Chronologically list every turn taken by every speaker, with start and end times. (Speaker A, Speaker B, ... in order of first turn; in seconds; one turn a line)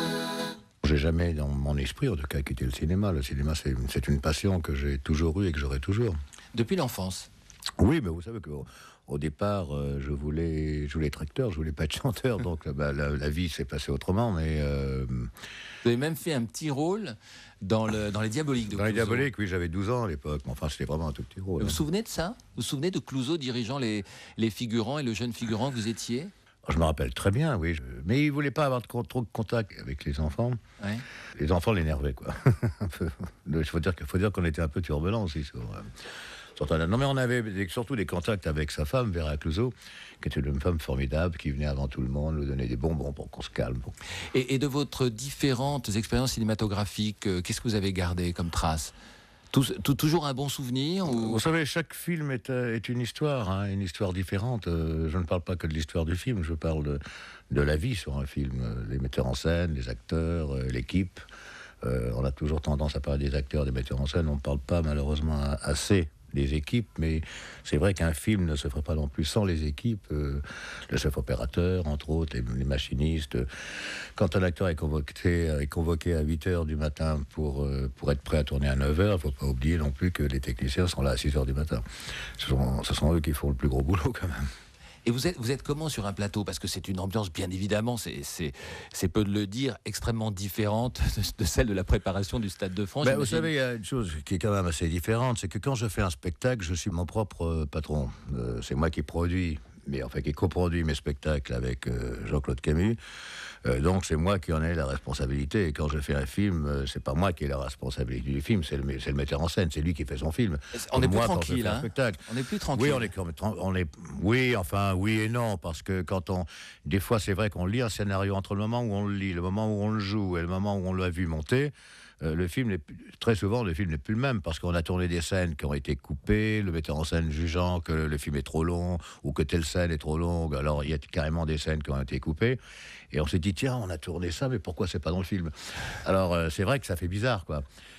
Speaker A: 0.8-6.2
Speaker B: 6.5-7.3
Speaker A: 7.8-15.3
Speaker B: 15.8-19.3
Speaker A: 18.7-21.8
Speaker B: 21.6-26.3
Speaker A: 26.7-30.6
Speaker B: 30.8-31.1
Speaker A: 31.4-35.9
Speaker A: 36.6-43.9
Speaker B: 44.3-48.9
Speaker B: 49.5-51.4
Speaker A: 51.1-61.2
Speaker A: 61.8-73.5
Speaker A: 74.2-81.8
Speaker A: 82.4-84.4
Speaker B: 85.0-93.5
Speaker A: 93.0-103.0
Speaker A: 103.7-112.2
Speaker B: 110.7-113.1
Speaker A: 112.7-132.6
Speaker A: 133.1-137.6